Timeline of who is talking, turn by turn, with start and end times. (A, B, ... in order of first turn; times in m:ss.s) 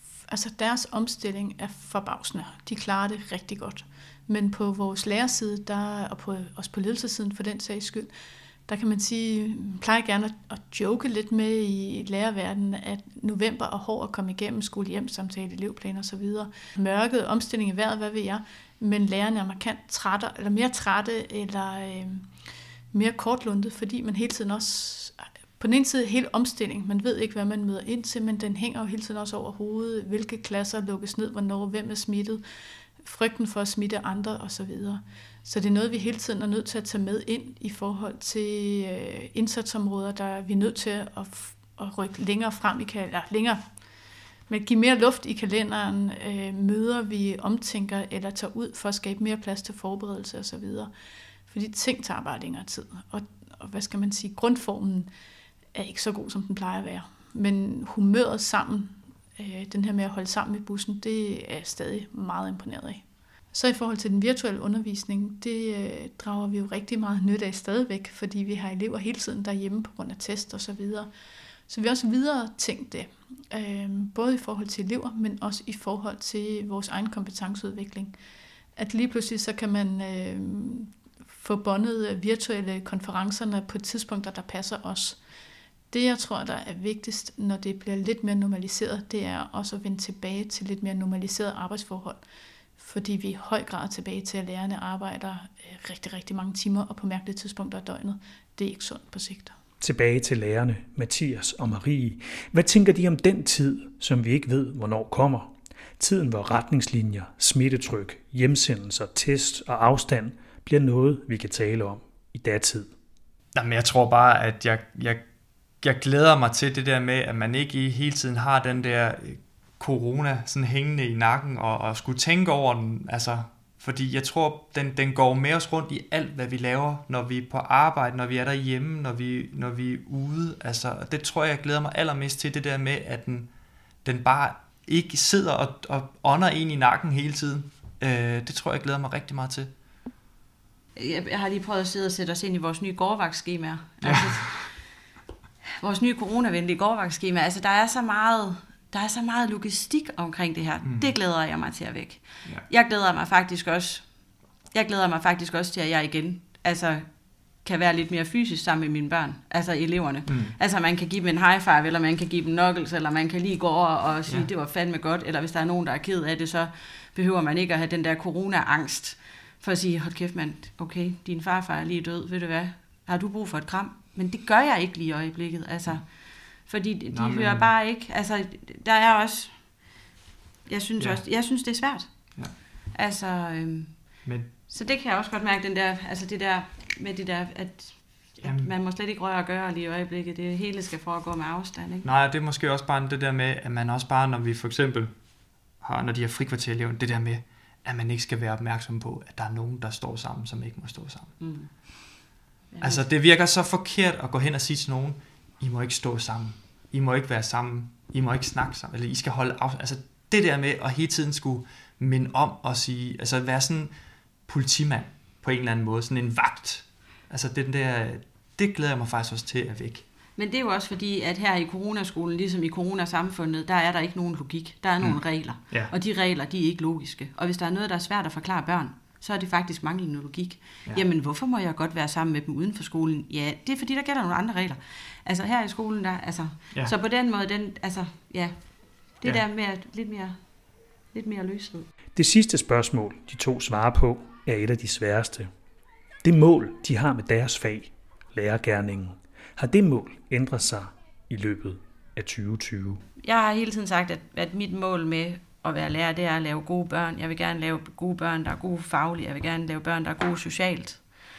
0:00.3-0:08.1 A
0:08.7-0:22.3 A
0:22.9-0:32.4 A
0:33.0-0:43.6 A
0:44.5-0:50.9 A
0:51.5-0:55.1 A
0:55.7-1:11.1 A
1:11.7-1:18.2 A
1:18.8-1:25.2 A
1:25.9-1:32.2 A
1:32.8-1:39.6 A
1:39.8-1:52.9 B
1:53.6-1:55.2 C
1:55.8-2:13.5 C
2:14.0-2:19.7 C
2:21.0-2:24.7 D
2:24.0-2:24.7 C
2:25.8-2:34.2 D
2:30.8-2:31.2 C
2:34.7-2:59.9 D
2:40.3-2:40.6 C
2:57.1-2:57.7 C
3:00.7-3:02.1 D
3:01.0-3:01.2 C
3:02.9-3:12.1 D
3:04.2-3:04.5 C
3:08.4-3:08.7 C
3:12.0-3:15.1 C
3:15.8-3:21.3 C
3:21.4-3:21.7 D
3:22.7-3:23.1 D
3:22.8-3:33.9 C
3:34.5-3:40.0 C
3:40.4-4:00.4 D
3:45.0-3:46.0 C
4:01.1-4:01.9 D
4:02.2-4:05.5 B
4:06.2-4:13.0 B
4:13.2-4:21.0 D